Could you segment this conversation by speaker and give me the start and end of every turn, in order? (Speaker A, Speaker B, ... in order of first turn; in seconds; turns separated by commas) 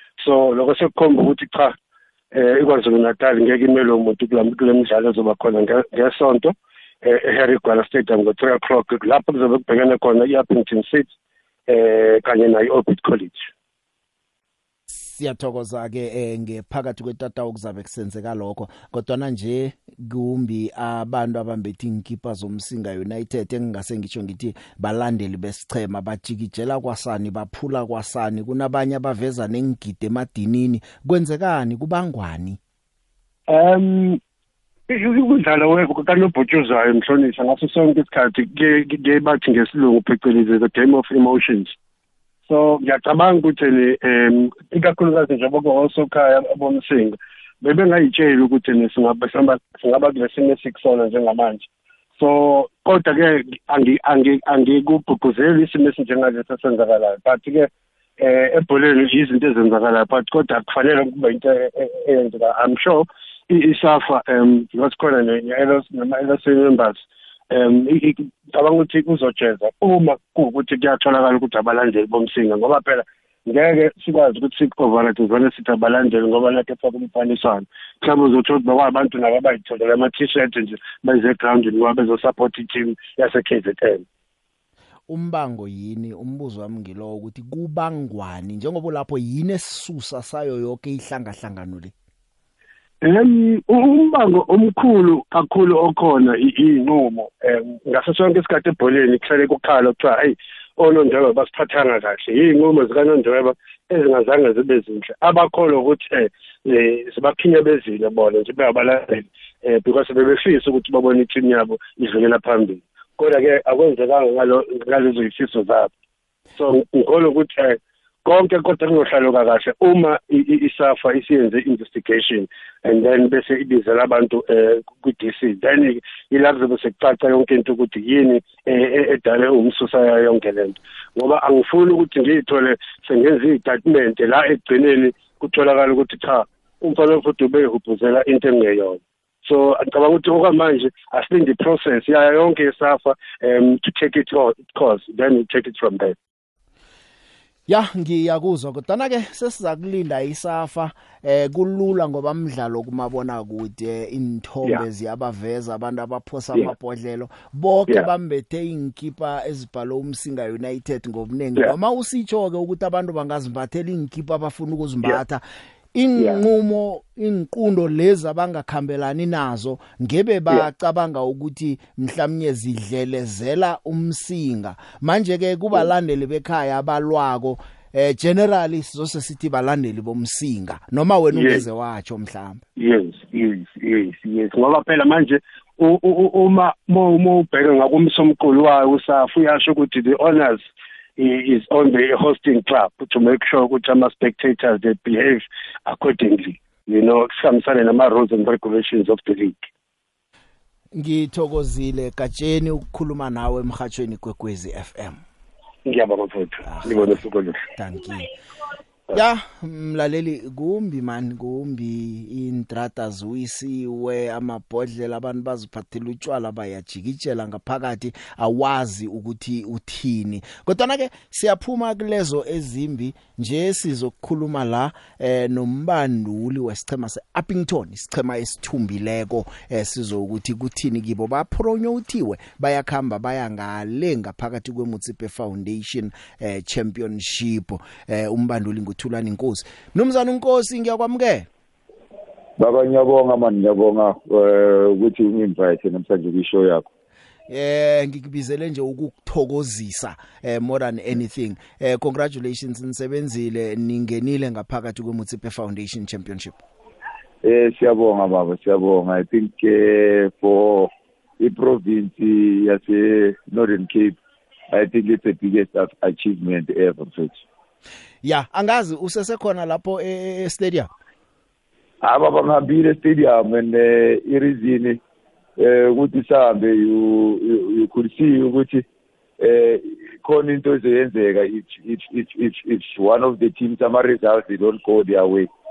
Speaker A: 0.2-1.8, Speaker A: 2.3-11.1, Speaker A: 11.7-13.5, Speaker B: 14.9-32.6, Speaker A: 33.5-34.2, Speaker A: 34.9-41.8, Speaker A: 42.5-57.7, Speaker A: 58.2-84.0, Speaker B: 85.1-91.9, Speaker A: 93.0-115.9, Speaker A: 116.6-146.2, Speaker B: 147.7-165.4, Speaker B: 165.9-182.6, Speaker A: 181.3-181.6, Speaker A: 182.8-199.7, Speaker B: 201.0-205.2, Speaker A: 205.9-207.6, Speaker B: 206.7-207.1, Speaker B: 207.8-208.3, Speaker B: 209.1-241.5, Speaker C: 242.6-246.9, Speaker B: 247.5-256.6, Speaker C: 257.4-264.1, Speaker C: 264.7-267.4, Speaker B: 268.2-270.9, Speaker C: 272.0-275.0, Speaker C: 275.6-278.8, Speaker C: 279.4-285.5